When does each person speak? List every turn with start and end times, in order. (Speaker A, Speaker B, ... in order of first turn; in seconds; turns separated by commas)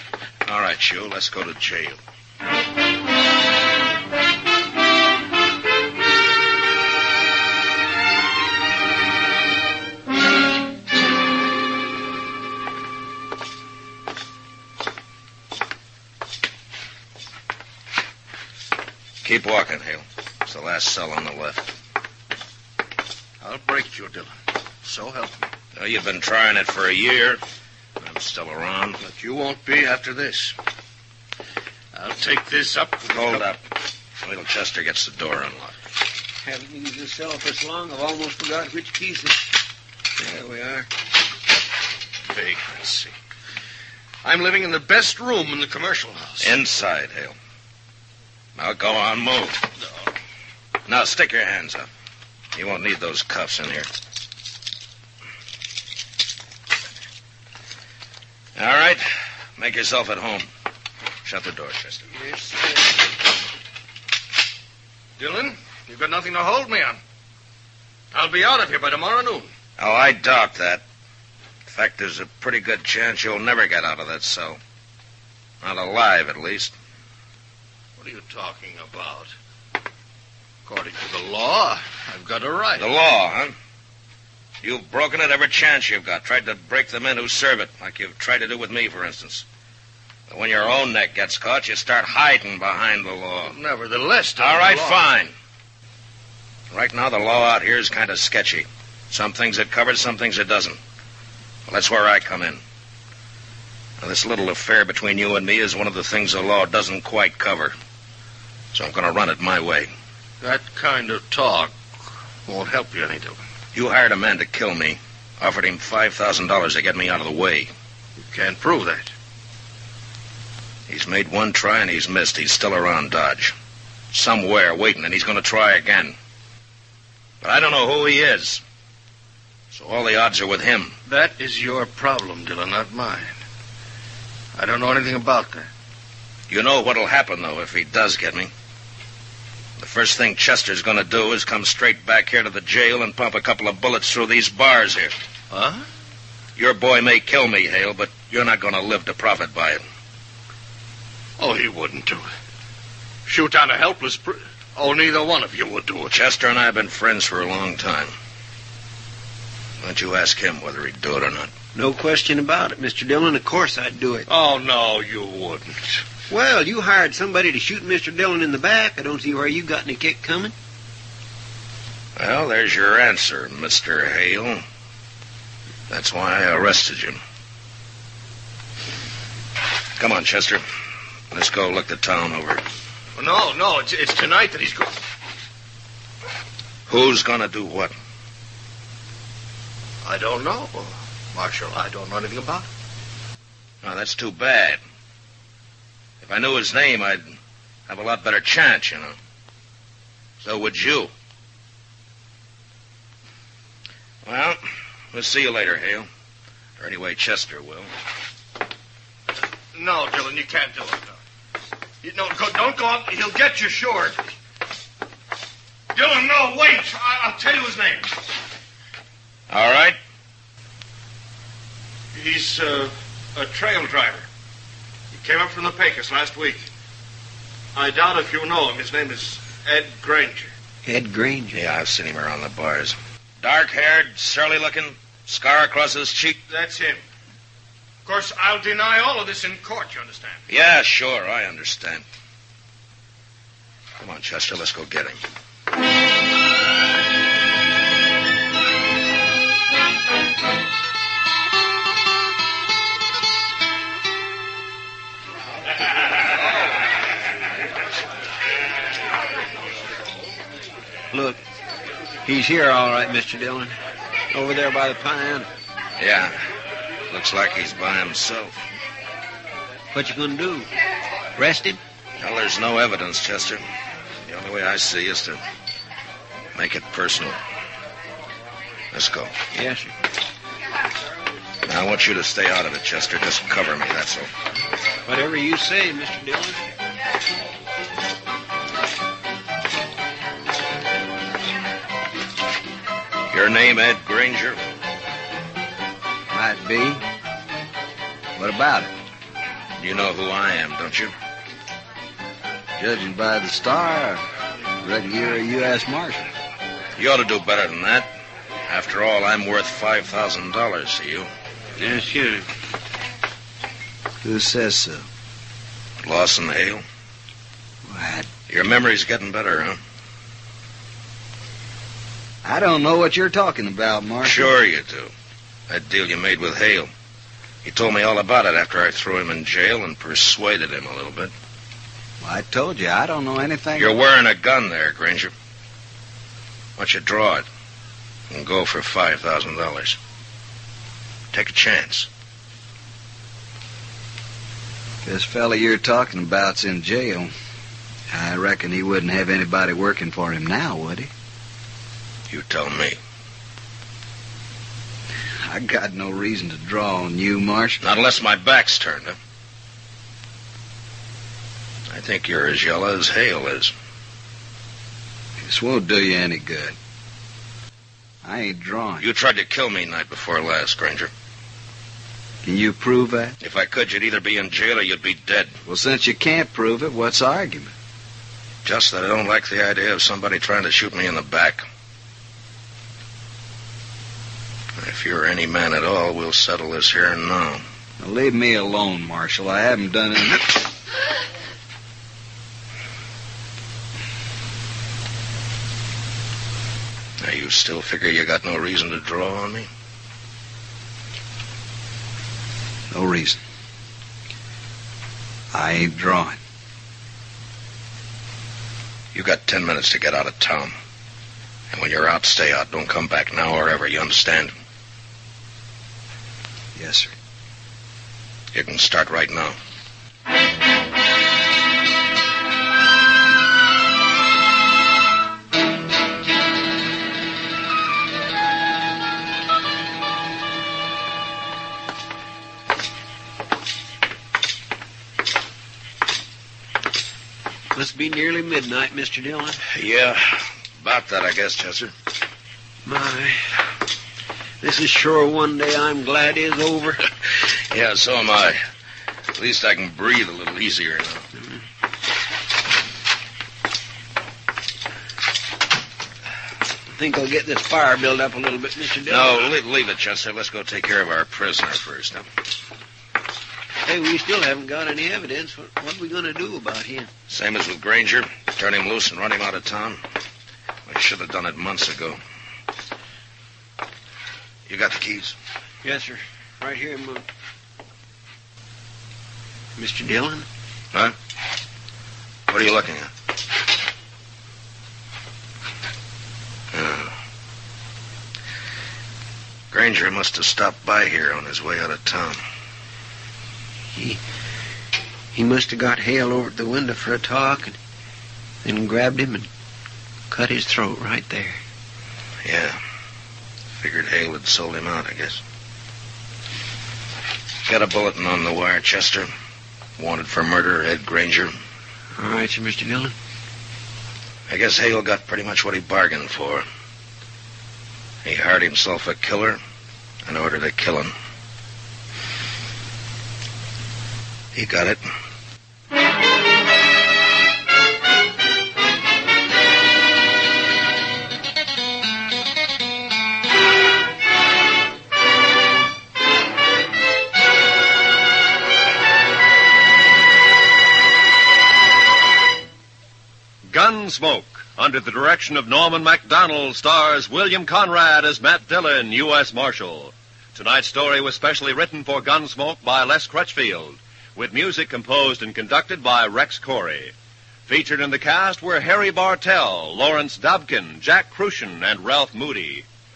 Speaker A: 0.5-2.0, Speaker A: 19.2-21.7, Speaker B: 23.4-25.5, Speaker A: 25.8-27.4, Speaker A: 28.0-29.0, Speaker B: 29.0-30.6, Speaker B: 31.9-33.5, Speaker A: 33.1-33.6, Speaker A: 34.2-35.8, Speaker C: 36.4-39.5, Speaker C: 40.2-40.9, Speaker B: 42.3-43.1, Speaker B: 44.2-46.6, Speaker A: 46.4-47.4, Speaker A: 48.6-49.7, Speaker A: 50.9-51.9, Speaker A: 52.5-53.9, Speaker A: 58.6-59.0, Speaker A: 59.6-60.5, Speaker A: 61.2-62.1, Speaker C: 62.3-62.8, Speaker B: 65.2-67.0, Speaker B: 68.1-69.5, Speaker A: 69.8-70.8, Speaker A: 71.7-74.6, Speaker A: 75.6-76.7, Speaker B: 78.0-79.3, Speaker B: 80.7-82.9, Speaker A: 82.8-83.6, Speaker A: 84.6-89.5, Speaker A: 90.3-93.5, Speaker B: 93.5-95.1, Speaker A: 94.4-95.3, Speaker A: 96.7-100.8, Speaker A: 101.7-102.6, Speaker A: 104.0-107.8, Speaker A: 108.7-109.9, Speaker B: 110.4-111.8, Speaker B: 112.5-113.4, Speaker A: 113.7-117.7, Speaker B: 118.2-119.1, Speaker A: 120.9-123.5, Speaker A: 124.1-126.2, Speaker A: 127.4-128.6, Speaker A: 129.7-130.9, Speaker B: 131.1-133.4, Speaker B: 134.6-135.7, Speaker A: 136.5-138.5, Speaker A: 139.8-145.1, Speaker B: 145.5-145.8, Speaker A: 146.6-149.8, Speaker B: 151.4-152.3, Speaker B: 153.3-156.2, Speaker A: 156.1-158.1, Speaker A: 159.8-161.5, Speaker C: 161.8-164.3, Speaker B: 164.3-166.0, Speaker C: 166.3-170.5, Speaker A: 172.2-174.6, Speaker A: 175.9-177.2, Speaker A: 180.0-180.6, Speaker A: 181.3-182.6, Speaker B: 183.2-185.0, Speaker A: 186.9-187.9, Speaker B: 190.0-192.7, Speaker A: 193.8-194.8, Speaker A: 196.2-197.3, Speaker A: 197.9-199.2, Speaker A: 200.4-201.1, Speaker A: 204.2-204.6, Speaker A: 205.1-206.1, Speaker A: 206.8-207.9, Speaker B: 209.7-211.2, Speaker B: 212.0-214.2, Speaker B: 215.9-218.1, Speaker A: 219.5-220.0, Speaker B: 222.1-224.3, Speaker B: 225.1-226.7, Speaker B: 227.8-230.5, Speaker C: 230.8-231.6, Speaker A: 231.5-236.4, Speaker B: 236.5-237.0, Speaker B: 238.1-240.4, Speaker A: 240.5-242.1, Speaker A: 244.0-245.2, Speaker C: 261.1-261.4, Speaker C: 262.2-263.7, Speaker C: 264.3-265.5, Speaker A: 266.0-266.4, Speaker A: 267.1-268.6, Speaker C: 269.9-270.7, Speaker C: 271.4-271.8, Speaker A: 272.2-273.6, Speaker A: 274.3-275.4, Speaker A: 276.6-277.4, Speaker A: 278.9-279.3, Speaker C: 279.5-279.9, Speaker A: 281.7-284.3, Speaker C: 285.1-286.7, Speaker A: 293.3-294.6, Speaker D: 296.3-297.1, Speaker D: 298.4-298.9, Speaker A: 299.8-301.1, Speaker D: 302.8-304.2, Speaker D: 304.8-306.3, Speaker A: 307.0-308.1, Speaker A: 308.7-311.3, Speaker C: 311.8-312.4, Speaker D: 314.2-315.0, Speaker A: 316.0-316.8, Speaker D: 317.9-318.3, Speaker A: 318.5-319.8, Speaker D: 322.4-324.6, Speaker A: 324.2-325.1, Speaker A: 325.7-326.9, Speaker A: 327.6-331.3, Speaker D: 332.2-334.0, Speaker A: 333.8-335.3, Speaker A: 336.8-337.5, Speaker A: 338.3-340.0, Speaker A: 341.3-342.1, Speaker D: 345.0-347.3, Speaker D: 348.1-351.1, Speaker A: 352.3-353.0, Speaker D: 355.4-357.8, Speaker A: 357.8-359.2, Speaker A: 361.9-363.7, Speaker D: 365.4-366.8, Speaker D: 368.2-369.0, Speaker A: 369.0-371.1, Speaker D: 372.4-373.4, Speaker A: 373.4-375.6, Speaker D: 375.7-377.7, Speaker A: 378.6-381.6, Speaker A: 384.8-387.6, Speaker D: 388.0-390.7, Speaker A: 397.2-399.7, Speaker D: 402.9-403.4, Speaker D: 405.5-406.4, Speaker A: 409.1-410.8, Speaker A: 411.7-414.5, Speaker D: 416.8-417.1, Speaker A: 418.5-419.6, Speaker C: 437.7-439.6, Speaker A: 439.7-441.9, Speaker C: 442.9-443.6, Speaker C: 444.6-447.0, Speaker A: 447.7-448.6, Speaker A: 449.4-451.2, Speaker C: 456.9-459.5, Speaker A: 459.1-462.3, Speaker C: 463.9-467.1, Speaker A: 467.3-470.0, Speaker A: 470.9-472.2, Speaker A: 474.7-475.4, Speaker C: 475.8-477.2, Speaker C: 479.8-480.5, Speaker A: 482.5-483.1, Speaker A: 486.7-487.1, Speaker A: 489.7-492.4, Speaker C: 493.9-494.2, Speaker C: 495.3-497.8, Speaker C: 498.6-499.5, Speaker C: 500.3-501.6, Speaker A: 502.4-502.8, Speaker A: 503.8-505.4, Speaker A: 507.7-509.3, Speaker A: 510.0-511.5, Speaker C: 512.2-513.1, Speaker A: 514.5-516.6, Speaker A: 518.2-519.6, Speaker A: 520.3-521.1, Speaker A: 524.5-525.1, Speaker E: 543.7-557.1, Speaker E: 557.7-562.9